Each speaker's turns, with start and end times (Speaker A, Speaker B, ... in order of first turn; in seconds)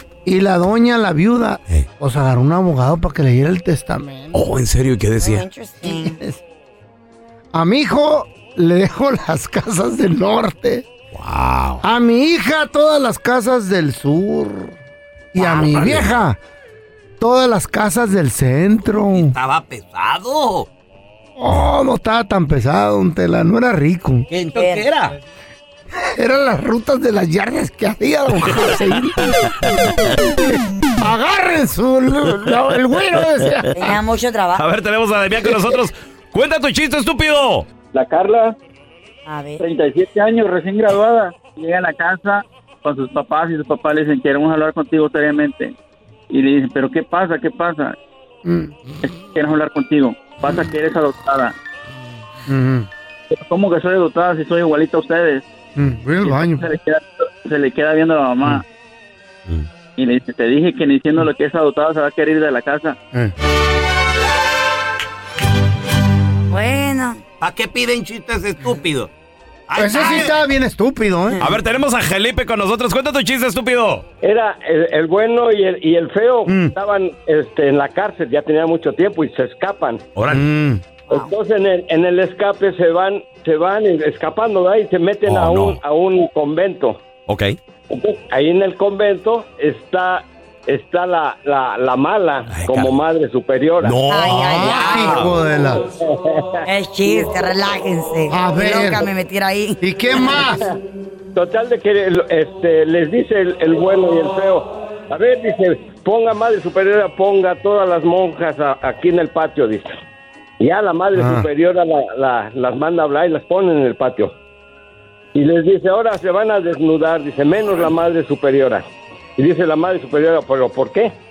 Speaker A: 0.2-4.4, 5.8-6.4, 7.5-10.9, 11.8-14.8, 15.3-16.4, 17.2-19.4, 21.4-24.3, 26.2-29.3, 31.0-34.0, 35.5-35.7, 48.5-48.7, 52.5-52.9, 55.8-56.7, 69.8-71.4, 76.5-76.7, 80.3-80.8, 94.5-95.9, 98.3-99.1, 99.8-100.6, 111.2-111.5
Speaker B: 4.3-5.5, 11.1-11.8, 15.8-16.1, 34.6-37.7, 71.4-74.0, 80.2-80.5, 85.3-85.8, 87.3-87.6, 92.5-92.9, 93.8-95.3
Speaker C: 5.2-6.2, 24.5-24.9, 33.7-34.6, 39.3-39.6, 66.5-67.2, 94.1-95.2, 96.7-100.4
Speaker D: 15.4-15.7, 19.1-20.7, 24.3-25.2, 67.4-69.1, 69.7-70.4
Speaker E: 37.9-38.6, 39.6-45.7, 46.3-48.0, 49.0-51.5, 53.3-55.5, 56.2-58.6, 60.0-63.0
Speaker F: 74.2-80.0, 81.1-87.0, 87.9-94.0, 96.0-97.2, 101.3-109.9, 110.6-114.3, 115.3-118.8, 119.4-121.1